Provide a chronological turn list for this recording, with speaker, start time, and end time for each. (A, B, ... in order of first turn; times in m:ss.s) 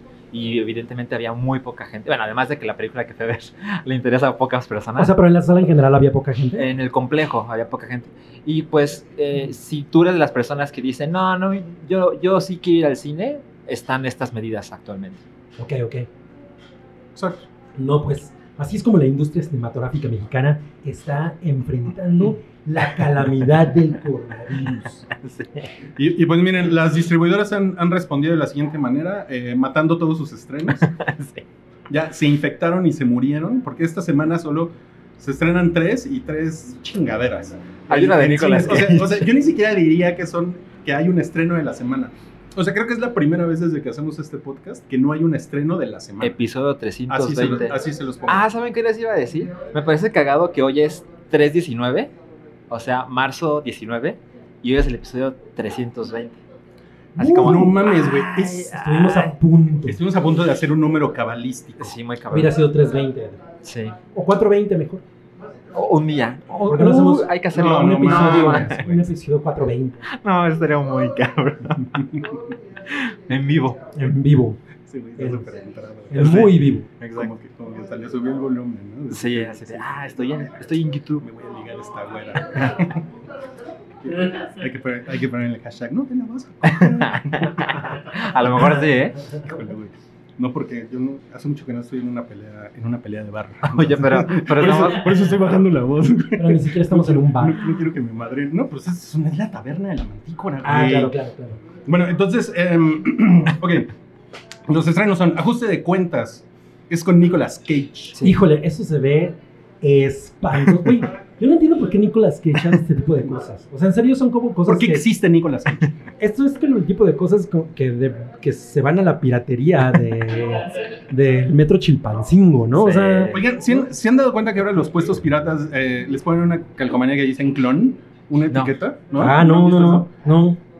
0:00.3-0:05.1 A
0:05.0-0:06.7 B
0:06.5-0:15.2 A
0:15.6-0:16.1 B
0:17.1-0:17.5 C
0:17.8-0:25.1 B
0:25.2-0:25.5 A
0:26.0-0:30.9 C
0:30.8-0:31.4 A
0:31.9-0:46.4 C
0:37.9-0:39.2 A
0:46.2-0:52.1 A
0:47.1-0:48.4 C
0:52.7-0:56.4 A
0:57.2-0:59.3 A
0:57.2-0:57.7 B
0:57.2-0:58.7 C
0:58.6-1:00.0 B
0:59.8-1:01.9 C
1:01.8-1:02.6 A
1:02.3-1:03.4 B
1:03.6-1:04.0 A
1:04.1-1:05.0 B
1:05.7-1:08.9 A
1:06.7-1:10.0 B
1:07.5-1:09.1 C
1:10.1-1:12.1 A
1:11.9-1:12.3 C
1:12.9-1:13.9 A
1:13.9-1:14.6 B
1:14.8-1:16.6 C
1:15.2-1:15.4 B
1:16.1-1:16.9 B
1:16.1-1:17.3 A
1:17.1-1:19.9 C
1:19.1-1:21.2 A
1:21.2-1:23.0 C
1:24.0-1:28.8 C
1:26.6-1:29.2 A
1:29.4-1:41.2 C
1:33.6-1:35.3 A
1:36.4-1:37.6 B
1:40.6-1:41.6 B
1:41.8-1:43.9 C
1:44.7-1:48.2 C
1:48.2-1:55.0 B
1:54.6-1:55.9 C
1:56.2-2:03.4 B
2:02.7-2:03.4 A
2:03.3-2:10.1 C
2:09.2-2:10.6 B